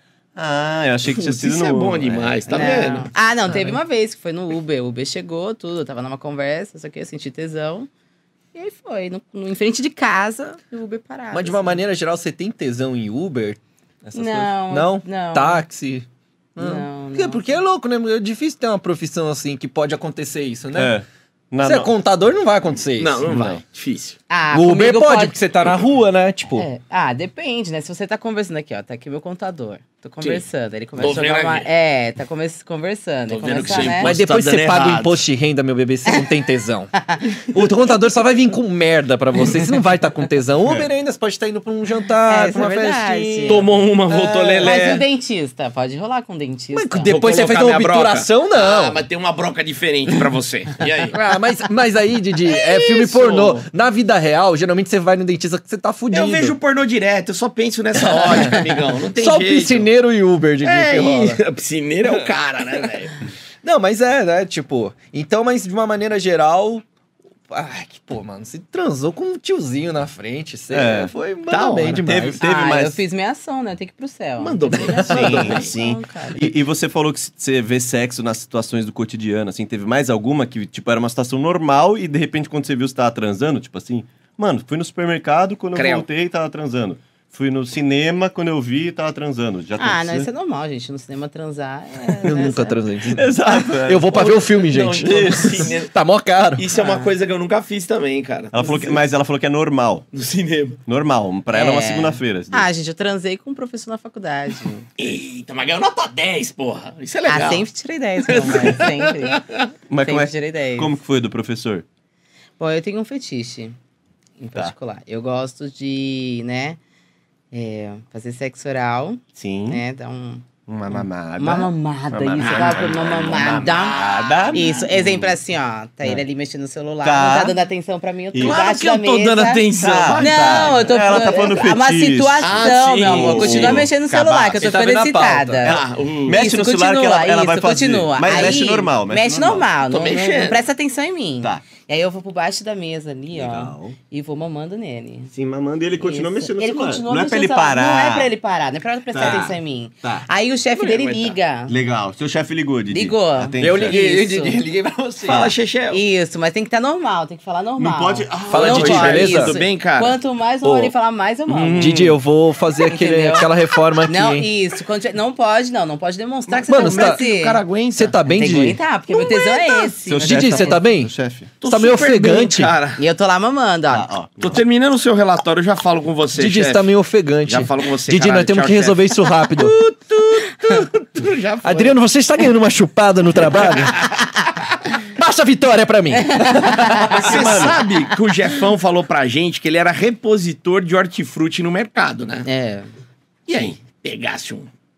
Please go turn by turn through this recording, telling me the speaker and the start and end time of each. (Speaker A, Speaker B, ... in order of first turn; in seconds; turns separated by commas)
Speaker A: 0.3-2.6, Speaker B: 1.1-3.1, Speaker C: 2.5-7.9, Speaker C: 8.5-11.8, Speaker D: 11.3-20.9, Speaker C: 14.1-15.7, Speaker C: 16.6-17.5, Speaker A: 20.7-21.9, Speaker D: 21.6-23.6, Speaker B: 23.0-24.2, Speaker C: 24.3-25.4, Speaker D: 24.5-26.7, Speaker C: 26.6-34.1, Speaker B: 30.9-31.7, Speaker B: 33.3-35.2, Speaker D: 33.7-36.9, Speaker D: 37.5-45.0, Speaker C: 42.2-43.6, Speaker B: 43.5-45.0, Speaker C: 44.6-47.2, Speaker D: 46.7-49.0, Speaker B: 47.1-51.1, Speaker D: 51.1-56.6, Speaker B: 52.5-53.6, Speaker B: 56.1-59.9, Speaker D: 58.0-58.6, Speaker D: 59.1-61.4, Speaker B: 60.6-63.2, Speaker D: 63.6-66.8, Speaker D: 67.5-72.4, Speaker A: 70.7-71.1, Speaker B: 71.5-72.0, Speaker A: 72.0-73.0, Speaker C: 72.4-76.5, Speaker B: 74.4-75.7, Speaker A: 75.1-90.3, Speaker B: 85.7-86.0, Speaker C: 89.8-92.8, Speaker D: 92.2-96.7, Speaker A: 93.1-94.2, Speaker B: 94.1-95.9, Speaker A: 95.0-95.7, Speaker B: 96.5-99.0, Speaker C: 96.7-97.1, Speaker A: 98.5-100.1, Speaker B: 100.1-100.8, Speaker A: 100.9-102.7, Speaker C: 101.5-104.9, Speaker B: 105.0-107.7, Speaker C: 107.3-109.4, Speaker B: 108.2-109.7, Speaker A: 109.9-111.8, Speaker C: 110.0-111.0, Speaker C: 112.6-113.8, Speaker C: 114.4-116.8, Speaker C: 117.5-145.3, Speaker A: 119.4-119.8, Speaker A: 120.7-125.4, Speaker B: 122.4-124.9, Speaker A: 127.0-127.5, Speaker B: 128.4-131.5, Speaker A: 129.8-134.6, Speaker B: 132.4-133.9, Speaker D: 134.6-135.7, Speaker A: 135.6-139.7, Speaker B: 135.7-136.4, Speaker B: 139.9-140.6, Speaker A: 143.3-144.0, Speaker A: 145.3-148.3, Speaker C: 146.0-151.7, Speaker A: 149.1-150.2, Speaker D: 149.2-149.5, Speaker B: 150.7-151.3, Speaker A: 151.7-154.0, Speaker C: 152.9-154.6, Speaker D: 153.6-155.5, Speaker A: 155.2-155.6, Speaker B: 155.3-156.0, Speaker C: 155.9-162.0, Speaker A: 157.8-159.2, Speaker B: 158.4-160.2, Speaker D: 158.5-159.5, Speaker D: 160.6-160.9, Speaker B: 161.5-162.2, Speaker D: 161.8-164.5, Speaker C: 162.8-163.5, Speaker C: 164.0-167.6, Speaker B: 166.5-168.7, Speaker D: 166.7-167.2, Speaker D: 167.9-168.8, Speaker C: 168.3-170.8, Speaker B: 169.2-169.9, Speaker A: 170.1-171.5, Speaker D: 170.2-172.7, Speaker B: 171.6-173.0, Speaker C: 173.0-174.1, Speaker A: 173.9-174.6, Speaker B: 174.4-176.9, Speaker D: 176.3-179.8, Speaker B: 177.4-182.0, Speaker D: 181.6-184.1, Speaker B: 183.6-184.0, Speaker D: 184.9-187.2, Speaker C: 186.1-187.8, Speaker A: 187.1-187.8, Speaker B: 187.1-192.5, Speaker C: 192.4-192.9, Speaker B: 193.5-194.7